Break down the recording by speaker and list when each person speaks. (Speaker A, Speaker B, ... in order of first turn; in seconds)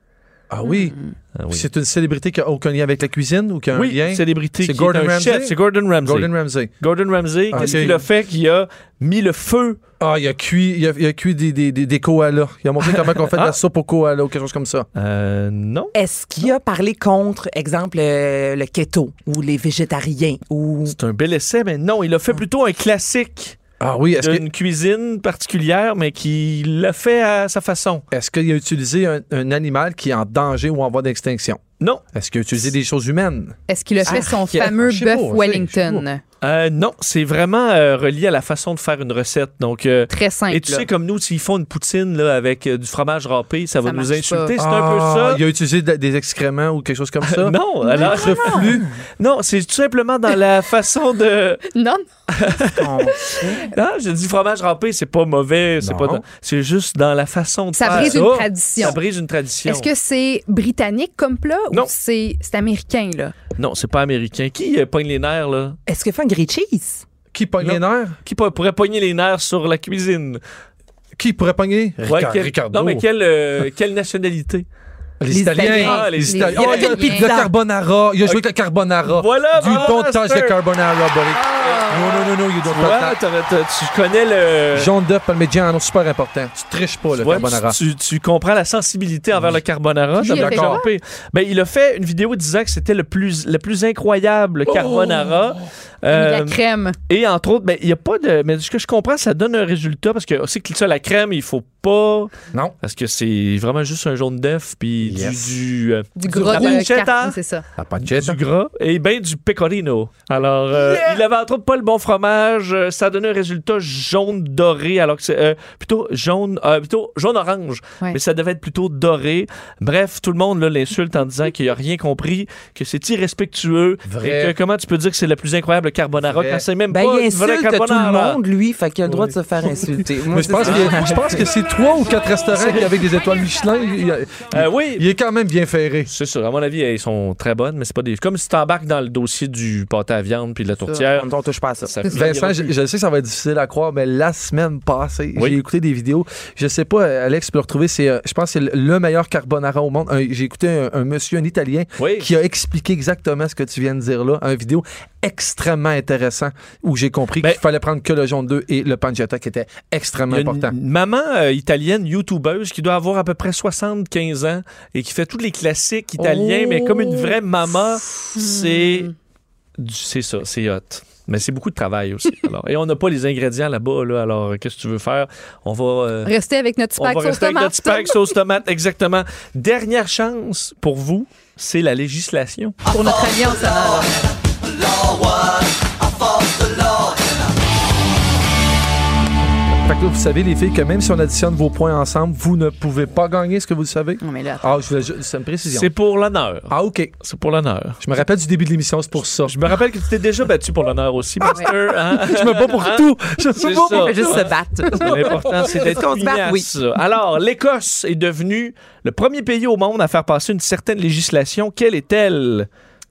Speaker A: 0.5-1.0, 1.5-6.7, 7.5-8.1, 10.0-14.9, 23.8-24.4, 28.1-31.6, 32.1-33.6, 34.1-36.0, 44.6-48.9, 55.8-56.2, 67.3-68.2, 71.2-73.0, 75.2-83.2, 84.7-87.8, 89.3-89.6, 90.2-90.8, 94.7-95.6, 105.0-105.5, 106.2-106.8, 107.8-108.4, 110.7-111.2, 124.0-124.5, 126.2-126.7, 129.1-129.3, 130.3-136.1, 142.0-160.8, 166.2-167.3, 189.8-195.9, 196.7-197.1, 198.0-199.6, 202.1-205.8
Speaker B: 0.6-1.1, 33.7-36.2, 40.1-40.7, 43.8-44.5, 47.9-48.7, 51.7-52.0, 57.7-59.0, 59.6-63.3, 75.8-77.3, 81.3-82.3, 90.2-90.9, 96.1-97.0, 106.2-107.6, 168.3-169.1, 176.2-178.3, 182.9-184.1, 194.2-194.7
Speaker C: 1.4-1.7, 3.7-9.8, 12.8-13.6, 14.9-15.9, 20.9-23.6, 24.2-28.0, 36.4-45.4, 47.2-51.6, 52.3-59.9, 63.6-65.8, 67.6-70.4, 72.0-74.7, 75.6-77.2, 79.0-80.5, 82.7-84.9, 87.2-107.4, 108.1-128.4, 130.6-131.0, 132.5-132.9, 134.5-135.0, 136.1-141.3, 141.8-142.7, 152.0-152.3, 160.3-169.1, 169.8-176.3, 176.9-182.8, 195.7-198.0, 199.4-212.7
Speaker D: 7.5-7.9, 15.9-20.9, 34.0-34.7, 52.6-53.7, 65.9-67.0, 75.3-77.5, 126.9-131.5, 140.9-141.9, 203.9-206.7